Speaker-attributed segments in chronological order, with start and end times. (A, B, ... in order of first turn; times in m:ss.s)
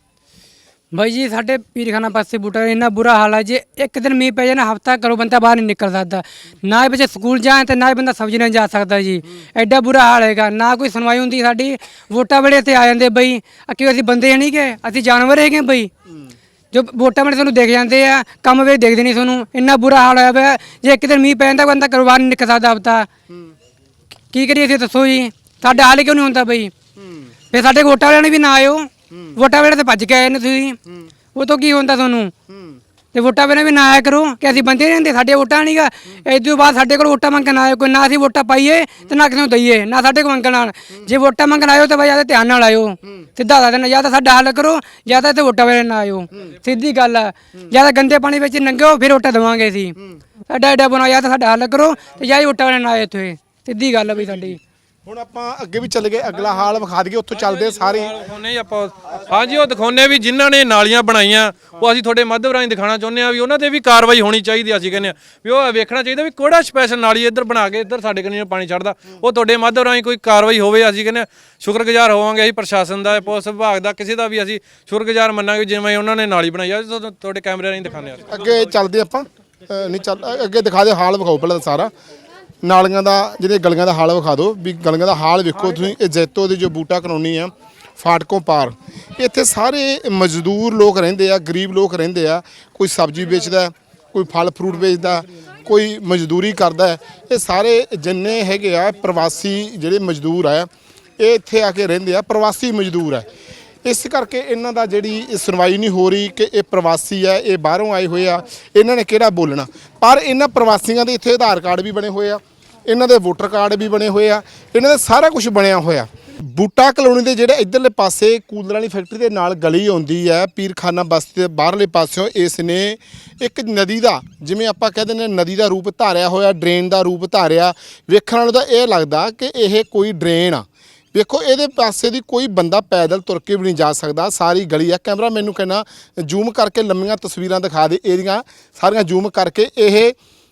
0:00.9-0:15.9 A
0:16.7-0:23.1 A
0:24.3-0:26.7 A
0:27.0-0:27.3 B
0:27.5-0:30.8 A
0:31.4-0:32.3 A
0:33.1-0:49.9 A
0:50.5-0:54.6 A
0:55.0-0:58.1 B
0:57.3-1:18.4 C
1:18.3-1:21.9 B
1:22.6-1:43.3 B
1:43.8-2:20.2 B